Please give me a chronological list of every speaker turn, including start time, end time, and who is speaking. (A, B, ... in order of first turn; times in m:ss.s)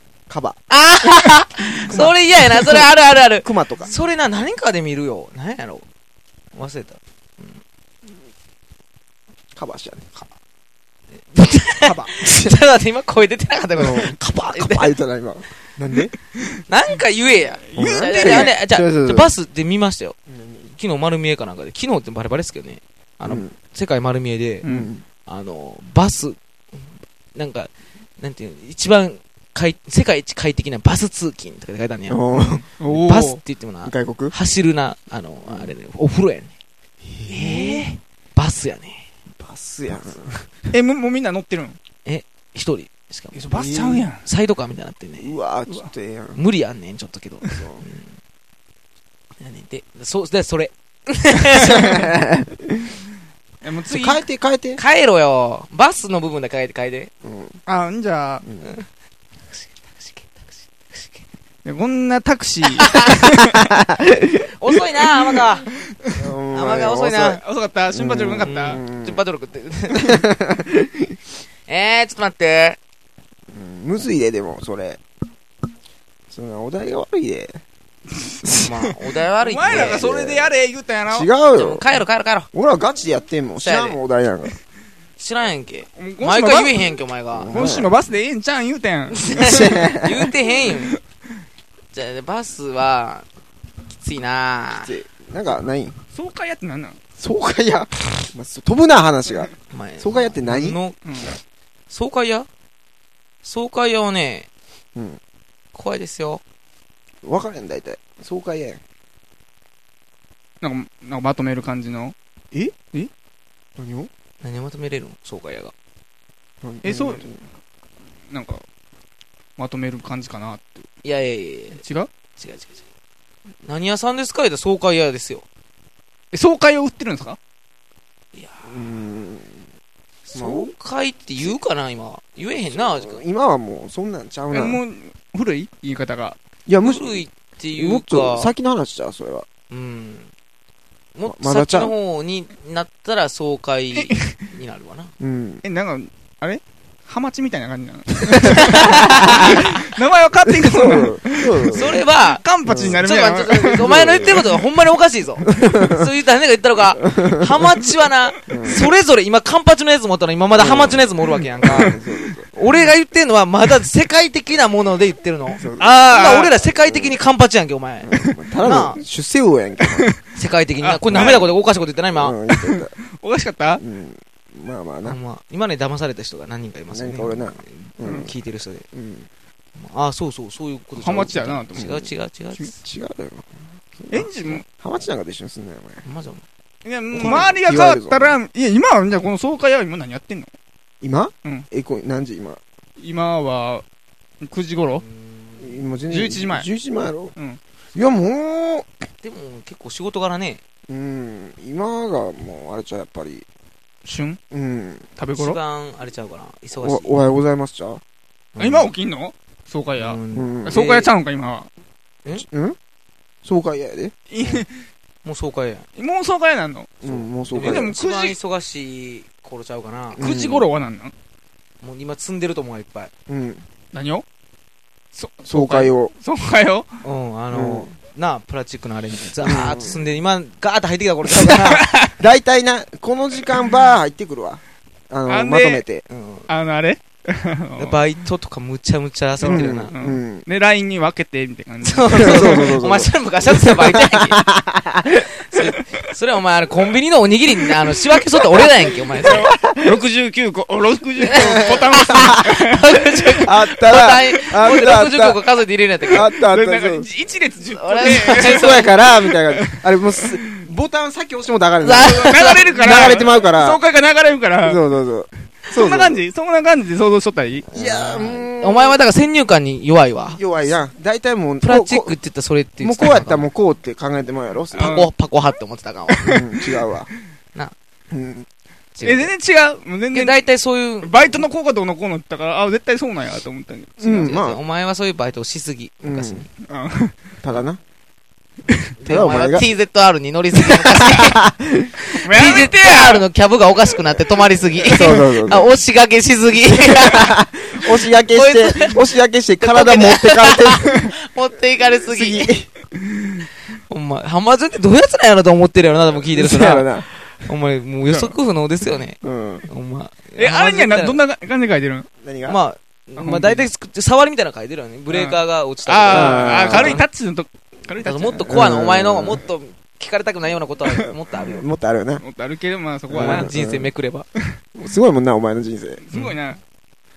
0:00.3-0:00.6 A
0:00.7-0:05.8 B
0:01.8-0:02.9 A
0:03.4-0:03.9 A
0:06.5-0:07.6 B
0:09.5-0:10.1 A
0:11.3-0:14.9 B
0:11.8-0:12.6 A
0:13.7-0:16.1 A
0:16.7-0:20.2 B
0:17.6-0:18.6 C
0:17.7-0:19.3 A
0:20.3-0:20.8 A
0:20.8-0:24.6 B
0:23.2-0:23.5 A
0:24.6-0:24.9 C
0:24.6-0:25.0 A
0:25.2-0:32.2 B
0:32.1-0:32.8 A
0:32.8-0:33.4 C
0:32.9-0:36.5 B
0:33.8-0:34.4 A
0:35.5-0:35.7 A
0:37.2-0:37.6 A
0:37.3-0:39.0 B
0:37.4-0:38.0 C
0:39.4-0:40.5 A
0:40.7-0:41.8 C
0:42.0-0:43.4 B
0:43.3-0:44.1 A
0:43.4-0:44.2 C
0:44.2-0:45.3 B
0:45.2-0:46.4 A
0:46.4-0:48.1 B
0:47.4-0:47.8 A
0:49.4-0:52.1 B
0:51.5-0:53.0 A
0:53.6-0:54.2 C
0:53.9-0:54.8 A
0:54.8-0:57.1 B
0:57.2-0:57.6 A
0:57.6-0:58.4 C
0:58.4-0:58.7 A
0:58.6-0:58.8 B
0:59.5-1:01.2 B
1:01.6-1:03.5 C
1:02.7-1:03.3 B
1:03.4-1:04.4 A
1:04.4-1:05.6 B
1:06.1-1:07.4 A
1:06.5-1:07.4 B
1:07.2-1:08.8 C
1:07.9-1:09.2 A
1:08.4-1:10.2 B
1:09.9-1:11.1 A
1:11.7-1:12.8 B
1:13.5-1:15.0 A
1:16.3-1:17.6 A
1:18.2-1:18.7 C
1:18.4-1:20.2 B
1:19.4-1:21.3 C
1:19.7-1:20.5 A
1:21.1-1:21.9 A
1:21.5-1:22.5 B
1:22.5-1:24.5 A
1:23.6-1:24.0 B
1:25.2-1:27.8 B
1:26.0-1:27.0 C
1:27.3-1:27.9 A
1:27.5-1:29.7 C
1:29.2-1:31.0 B
1:29.3-1:30.3 A
1:30.7-1:31.0 C
1:31.9-1:33.2 B
1:33.9-1:34.9 B
1:34.7-1:36.0 A
1:36.1-1:37.0 C
1:37.2-1:40.8 A
1:39.7-1:41.0 B
1:41.0-1:41.3 C
1:41.9-1:42.5 B
1:43.4-1:44.5 B
1:45.7-1:46.4 B
1:47.2-1:48.8 A
1:50.6-1:52.1 C
1:53.8-1:54.1 A
1:54.4-1:55.7 B
1:56.6-1:57.4 A
1:56.8-1:57.3 C
1:58.3-1:58.6 C
1:59.6-2:00.8 C
2:01.0-2:01.8 B
2:01.7-2:02.1 C
2:02.4-2:02.8 B
2:03.6-2:05.4 B
2:06.3-2:07.4 C
2:08.3-2:08.7 B
2:08.6-2:09.6 A
2:10.2-2:13.2 B
2:10.3-2:10.7 A
2:12.5-2:14.8 A
2:14.5-2:16.4 C
2:16.6-2:19.4 A
2:16.8-2:18.5 B
2:19.7-2:20.3 B
2:21.1-2:25.1 B
2:21.2-2:21.9 A
2:23.9-2:24.4 C
2:25.2-2:25.6 A
2:25.6-2:33.7 C
2:28.2-2:29.6 A
2:28.2-2:29.7 B
2:30.5-2:32.0 A
2:31.7-2:42.0 B
2:32.6-2:34.6 A
2:35.4-2:36.1 A
2:37.0-2:37.7 A
2:38.5-2:38.9 A
2:40.5-2:42.5 A
2:42.5-2:49.0 B
2:45.6-2:46.0 A
2:45.8-2:46.5 C
2:46.6-2:47.2 A
2:48.0-2:50.1 A
2:49.8-2:50.2 C
2:50.3-2:52.3 B
2:50.8-2:51.5 C
2:51.1-2:51.5 A
2:52.1-2:52.9 A
2:52.5-2:53.8 C
2:53.8-2:55.2 A
2:55.0-2:58.8 B
2:56.9-2:58.3 A
2:58.9-2:59.3 A
2:59.8-3:02.7 B
3:00.9-3:02.0 C
3:01.7-3:02.1 A
3:02.8-3:06.0 A
3:04.1-3:04.6 C
3:06.0-3:06.4 B
3:06.8-3:10.5 C
3:07.1-3:08.4 A
3:11.0-3:12.6 A
3:13.0-3:13.8 C
3:14.4-3:15.0 C
3:15.0-3:15.8 B
3:15.6-3:17.3 A
3:16.1-3:16.7 C
3:17.9-3:18.9 A
3:19.2-3:20.6 B
3:20.9-3:23.4 A
3:24.0-3:24.4 C
3:24.5-3:25.1 A
3:25.2-3:25.6 C
3:25.4-3:27.3 B
3:26.8-3:28.0 A
3:28.6-3:28.9 B
3:28.6-3:31.7 C
3:30.0-3:31.1 B
3:30.3-3:31.1 A
3:32.3-3:32.8 A
3:33.4-3:34.1 A
3:34.3-3:34.7 C
3:35.2-3:35.8 B
3:36.0-3:38.4 C
3:37.0-3:38.0 A
3:37.1-3:40.2 B
3:40.1-3:40.7 A
3:40.2-3:41.1 C
3:41.8-3:43.1 B
3:43.3-3:43.6 A
3:43.9-3:44.2 C
3:45.1-3:46.9 C
3:45.5-3:46.1 A
3:47.0-3:51.9 B
3:47.5-3:47.9 A
3:49.4-3:50.0 A
3:51.3-3:56.0 A
3:51.5-3:52.1 C
3:55.3-3:55.8 C
3:56.1-3:56.5 B
3:56.5-3:58.0 C
3:57.8-3:59.9 B
3:59.4-4:02.8 C
3:59.4-4:00.4 A
4:01.8-4:04.4 B
4:02.1-4:05.7 A
4:05.5-4:09.5 B
4:09.2-4:12.9 C
4:09.6-4:09.9 A
4:11.2-4:16.3 B
4:11.3-4:12.5 A
4:13.4-4:15.4 A
4:16.1-4:17.1 A
4:16.1-4:20.3 C
4:17.7-4:18.9 B
4:18.2-4:23.8 A
4:21.8-4:22.8 B
4:21.9-4:24.8 C
4:24.6-4:26.2 A
4:25.7-4:27.7 C
4:27.7-4:29.0 A
4:27.7-4:30.4 B
4:30.3-4:32.2 A
4:31.6-4:33.5 B
4:32.8-4:35.0 A
4:34.7-4:35.1 C
4:34.7-4:36.4 B
4:36.2-4:36.9 C
4:36.2-4:37.1 A
4:38.1-4:38.5 A
4:38.9-4:39.3 B
4:39.0-4:40.4 C
4:40.1-4:41.4 B
4:41.0-4:44.3 C
4:44.0-4:44.6 A
4:44.0-4:46.5 B
4:46.0-4:46.5 A
4:46.6-4:47.1 C
4:47.4-4:47.8 A
4:49.0-4:51.4 B
4:49.0-4:49.7 A
4:50.5-4:52.0 A
4:52.1-4:59.0 B
4:52.2-4:53.2 C
4:54.9-4:55.7 A
4:56.8-5:01.1 A
4:59.6-5:02.6 B
5:01.8-5:02.7 A
5:03.1-5:03.4 C
5:03.9-5:11.2 B
5:06.2-5:07.1 A
5:08.0-5:08.3 C
5:09.2-5:09.7 A
5:10.4-5:12.0 C
5:12.2-5:12.6 A
5:12.4-5:17.0 B
5:13.2-5:13.6 C
5:15.1-5:18.5 C
5:16.1-5:17.0 A
5:18.0-5:21.6 B
5:18.4-5:19.4 A
5:21.4-5:22.2 A
5:22.2-5:23.5 C
5:23.1-5:23.9 A
5:23.1-5:24.3 B
5:24.7-5:26.0 A
5:26.0-5:26.6 C